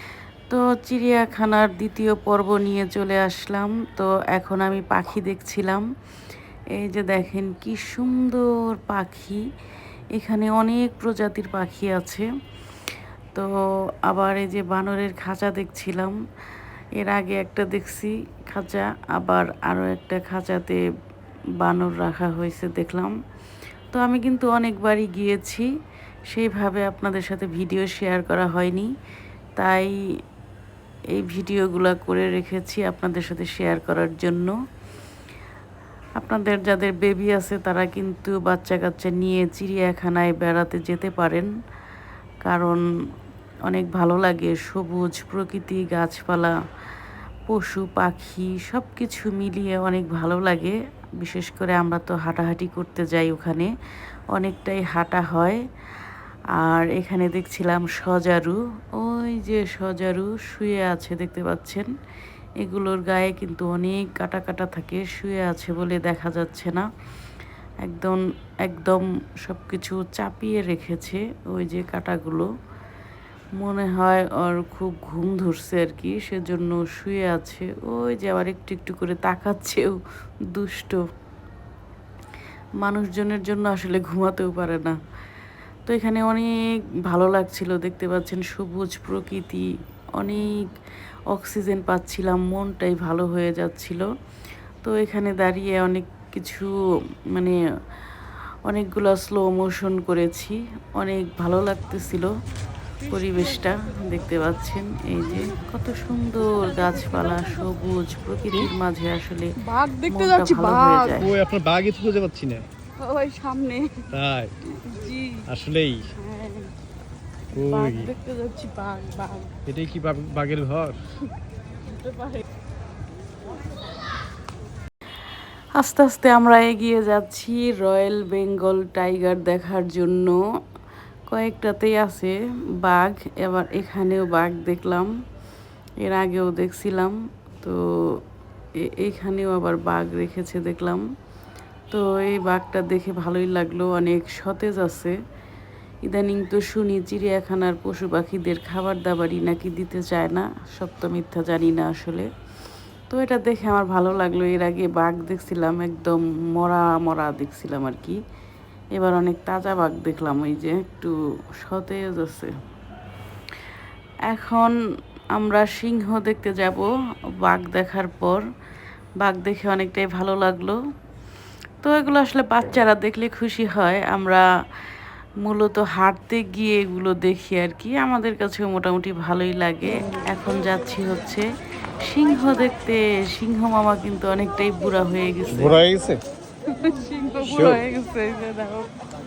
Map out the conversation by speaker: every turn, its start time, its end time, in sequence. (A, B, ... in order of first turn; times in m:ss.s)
0:00.5-0:05.9 A
0:06.8-0:09.4 A
0:10.2-0:12.3 A
0:14.1-0:16.2 A
0:17.0-0:20.8 A
0:21.6-0:23.1 A
0:23.9-0:25.7 A
0:26.3-0:28.9 A
0:29.6-0:29.9 A
0:31.1-0:34.5 A
0:36.2-0:41.5 A
0:42.4-0:42.8 A
0:43.7-0:46.6 A
0:47.5-0:53.7 A
0:54.3-0:55.6 A
0:56.6-1:01.9 A
1:02.6-1:06.9 A
1:07.8-1:12.5 A
1:13.6-1:20.0 A
1:20.5-1:21.0 A
1:22.8-1:25.0 A
1:25.9-1:29.7 A
1:30.2-1:30.7 A
1:31.3-1:34.1 A
1:34.8-1:36.7 A
1:38.7-1:42.3 A
1:43.0-1:49.5 A
1:49.6-1:51.2 B
1:50.1-1:51.3 A
1:51.2-1:52.7 C
1:53.0-1:54.0 B
1:54.1-1:54.5 C
1:54.9-1:55.4 B
1:55.5-1:56.1 C
1:56.3-1:56.6 A
1:57.5-1:58.1 C
1:57.6-1:59.5 B
1:59.7-2:01.0 C
2:02.0-2:02.4 B
2:05.8-2:10.4 A
2:11.3-2:15.1 A
2:16.0-2:17.8 A
2:18.8-2:21.0 A
2:21.9-2:25.2 A
2:26.0-2:32.3 A
2:33.1-2:38.2 A
2:38.9-2:42.5 A
2:44.3-2:44.8 A
2:45.3-2:46.9 A
2:47.4-2:48.4 A
2:49.2-2:50.8 A
2:51.8-2:54.4 A
2:55.4-3:01.4 A
3:02.0-3:05.9 A
3:05.5-3:06.2 C
3:06.7-3:07.8 B
3:07.0-3:08.9 A
3:07.4-3:07.8 C